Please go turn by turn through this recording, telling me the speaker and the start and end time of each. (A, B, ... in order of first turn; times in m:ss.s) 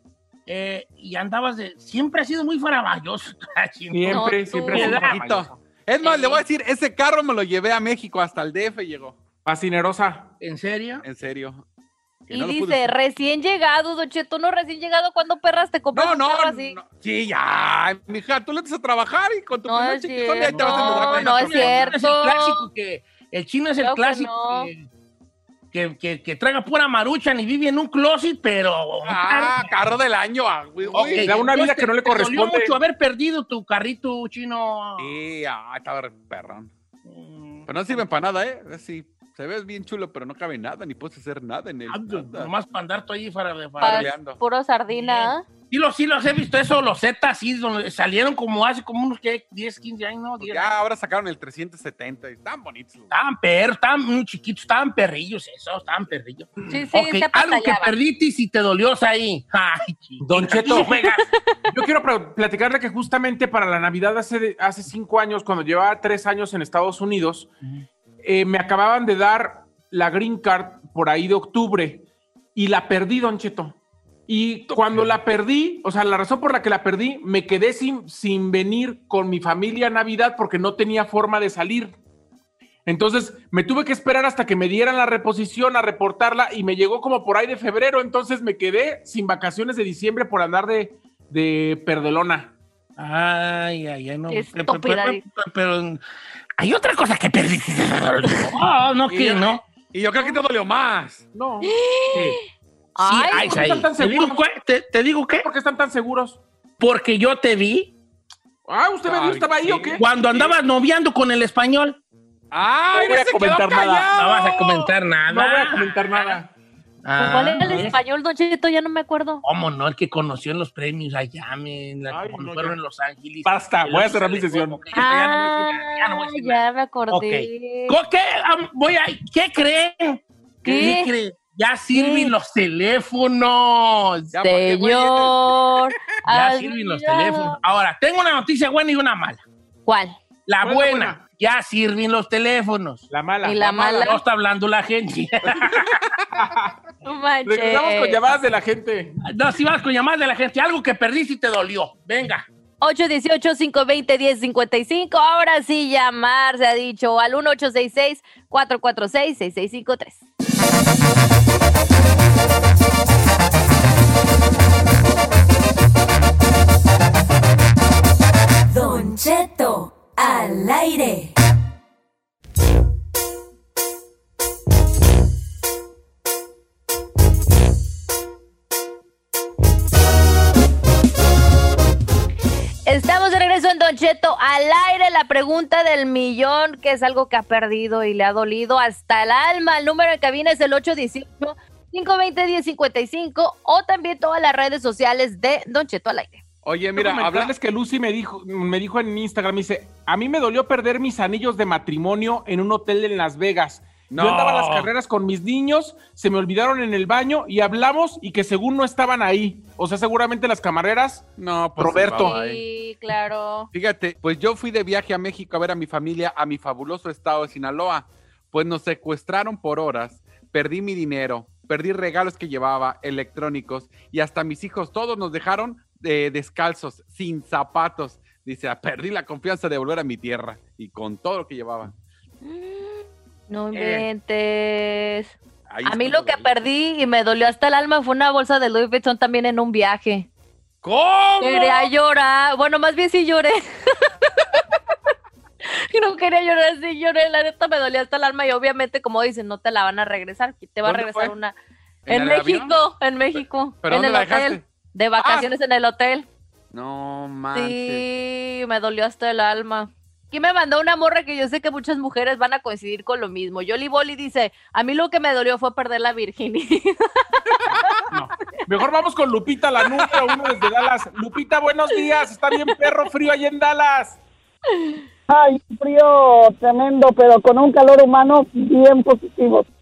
0:00.5-0:05.5 A
0:03.9-0:05.1 B
0:04.1-0:05.0 C
0:04.7-0:09.2 D
0:06.0-0:06.4 C
0:09.4-0:10.3 B
0:10.4-0:11.0 A
0:11.0-0:11.6 D
0:12.3-0:12.9 D
0:12.3-0:16.8 C
0:15.9-0:22.0 D
0:19.7-0:22.6 C
0:20.4-0:24.9 A
0:23.8-0:24.7 C
0:25.7-0:29.7 A
0:29.0-0:31.4 D
0:30.8-0:35.1 A
0:31.2-0:32.7 B
0:35.0-0:36.7 D
0:37.0-0:38.0 A
0:37.7-0:42.5 D
0:41.9-0:44.1 A
0:43.8-0:44.4 D
0:43.8-0:45.4 C
0:44.9-0:50.7 A
0:50.4-0:53.1 D
0:53.1-1:01.3 A
0:56.7-0:57.9 C
1:00.2-1:01.0 B
1:00.8-1:01.5 C
1:01.7-1:07.5 B
1:08.2-1:12.0 B
1:12.5-1:13.8 B
1:14.3-1:22.0 B
1:22.8-1:32.5 B
1:33.0-1:36.0 A
1:34.3-1:35.2 C
1:36.6-1:39.6 A
1:39.1-1:41.3 D
1:41.3-1:41.7 B
1:41.6-1:42.4 C
1:42.1-1:42.4 A
1:42.9-1:43.6 C
1:43.0-1:45.5 A
1:43.3-1:44.4 B
1:45.4-1:46.4 B
1:46.8-1:47.9 A
1:48.6-1:50.2 B
1:49.0-1:50.5 D
1:50.0-1:52.0 A
1:52.5-1:54.9 D
1:52.9-1:54.1 B
1:54.1-1:56.4 A
1:55.3-1:56.5 B
1:57.0-1:58.0 A
1:57.2-1:59.4 C
1:59.4-2:14.3 A
2:02.1-2:02.8 B
2:03.4-2:04.8 B
2:04.9-2:08.0 C
2:10.6-2:11.1 C
2:11.9-2:12.3 C
2:14.3-2:15.9 D
2:14.4-2:17.6 C
2:16.3-2:19.4 A
2:19.8-2:20.2 C
2:20.5-2:23.1 A
2:20.6-2:21.2 B
2:23.1-2:23.7 B
2:23.4-2:24.2 C
2:23.6-2:26.0 A
2:26.4-2:26.7 B
2:27.0-2:28.2 C
2:27.4-2:29.1 B
2:29.2-2:32.5 A
2:32.8-2:40.2 C
2:48.7-2:51.3 E
3:02.8-3:16.4 C
3:16.6-3:17.5 D
3:16.9-3:31.3 B
3:24.1-3:24.9 D
3:31.4-3:32.6 D
3:31.8-3:32.3 B
3:32.1-3:33.7 C
3:33.7-3:51.9 D
3:52.4-4:00.3 C
3:53.7-3:54.0 A
3:55.7-3:56.5 D
4:00.8-4:01.9 D
4:01.4-4:04.1 C
4:05.6-4:11.5 C
4:10.8-4:11.3 D
4:12.0-4:12.8 D
4:12.1-4:16.3 C
4:13.4-4:14.6 D
4:15.2-4:15.5 D
4:16.7-4:18.0 D
4:17.5-4:27.2 C
4:27.7-4:28.0 D
4:28.1-4:34.2 B
4:30.0-4:30.5 D
4:35.3-4:39.6 F